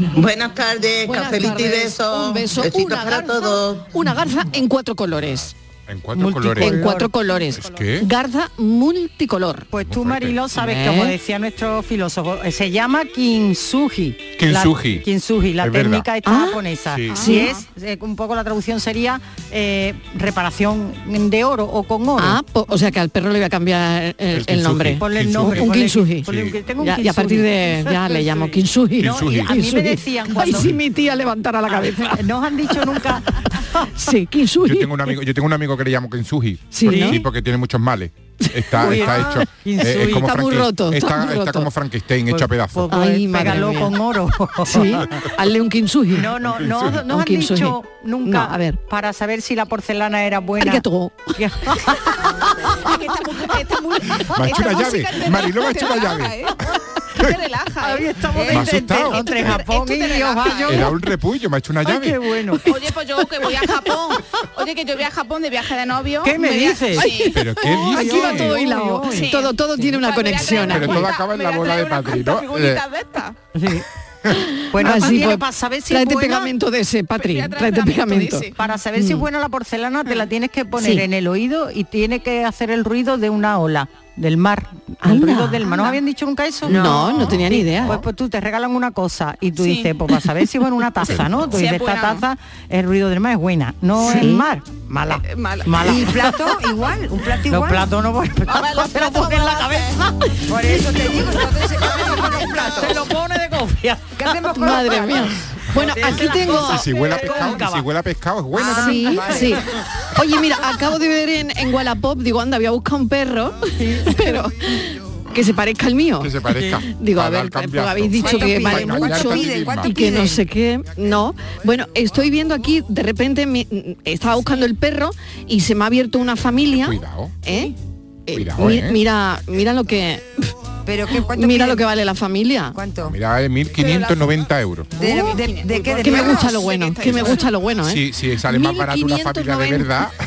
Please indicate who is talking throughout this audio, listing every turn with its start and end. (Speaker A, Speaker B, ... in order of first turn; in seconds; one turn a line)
Speaker A: 0.1-3.9
Speaker B: 1.1-5.5
Speaker C: 5.2-6.8
Speaker D: 6.1-7.3
Speaker B: 6.6-9.7
Speaker C: 7.5-8.1
Speaker D: 9.7-22.4
Speaker C: 9.8-10.4
Speaker B: 10.6-11.1
Speaker C: 14.4-15.0
Speaker C: 15.6-16.1
Speaker B: 16.2-17.5
Speaker C: 16.9-17.2
Speaker E: 17.2-17.6
Speaker B: 22.2-26.3
Speaker C: 24.3-26.6
Speaker D: 25.0-30.8
Speaker B: 26.8-32.2
Speaker C: 29.0-29.5
Speaker D: 31.7-33.9
Speaker B: 34.0-34.9
Speaker C: 34.6-43.6
Speaker B: 36.7-37.2
Speaker D: 36.9-37.2
Speaker B: 38.4-39.4
Speaker D: 38.8-40.2
Speaker B: 40.0-41.7
Speaker D: 42.3-45.2
Speaker B: 42.9-43.9
Speaker B: 44.6-46.3
Speaker D: 46.1-50.8
Speaker C: 46.5-47.0
Speaker B: 47.0-48.8
Speaker B: 50.6-51.3
Speaker D: 51.4-52.0
Speaker E: 52.8-56.6
Speaker C: 54.3-56.5
Speaker E: 57.2-60.9
Speaker D: 57.8-60.9
Speaker C: 58.5-59.3
Speaker C: 60.7-62.2
Speaker D: 61.8-62.7
Speaker E: 62.6-67.4
Speaker D: 66.2-67.2
Speaker B: 67.0-71.1
Speaker C: 67.3-68.5
Speaker D: 67.9-69.3
Speaker E: 69.1-73.4
Speaker C: 70.5-72.8
Speaker D: 73.5-73.8
Speaker B: 74.6-79.2
Speaker D: 74.7-76.5
Speaker E: 77.2-78.5
Speaker D: 78.5-96.2
Speaker B: 80.8-81.0
Speaker B: 85.0-86.0
Speaker B: 86.7-88.0
Speaker E: 86.8-87.4
Speaker E: 89.6-89.9
Speaker E: 91.4-92.2
Speaker B: 94.0-94.4
Speaker E: 95.2-96.3
Speaker F: 95.8-97.9
Speaker D: 97.5-104.3
Speaker E: 98.5-100.0
Speaker F: 100.5-103.1
Speaker F: 104.2-105.3
Speaker B: 104.5-106.8
Speaker D: 105.7-107.9
Speaker C: 106.5-109.1
Speaker F: 108.6-108.8
Speaker D: 108.6-109.6
Speaker B: 108.7-116.3
Speaker D: 113.8-114.4
Speaker C: 116.2-120.0
Speaker D: 116.5-116.8
Speaker B: 116.9-127.7
Speaker F: 118.2-120.4
Speaker C: 126.8-127.3
Speaker B: 128.3-130.3
Speaker C: 128.3-129.0
Speaker F: 130.8-131.8
Speaker B: 131.3-132.8
Speaker F: 132.7-133.1
Speaker C: 133.0-134.9
Speaker E: 133.8-134.3
Speaker F: 135.0-136.7
Speaker E: 135.0-137.5
Speaker B: 135.0-135.3
Speaker B: 135.9-139.9
Speaker C: 137.0-140.2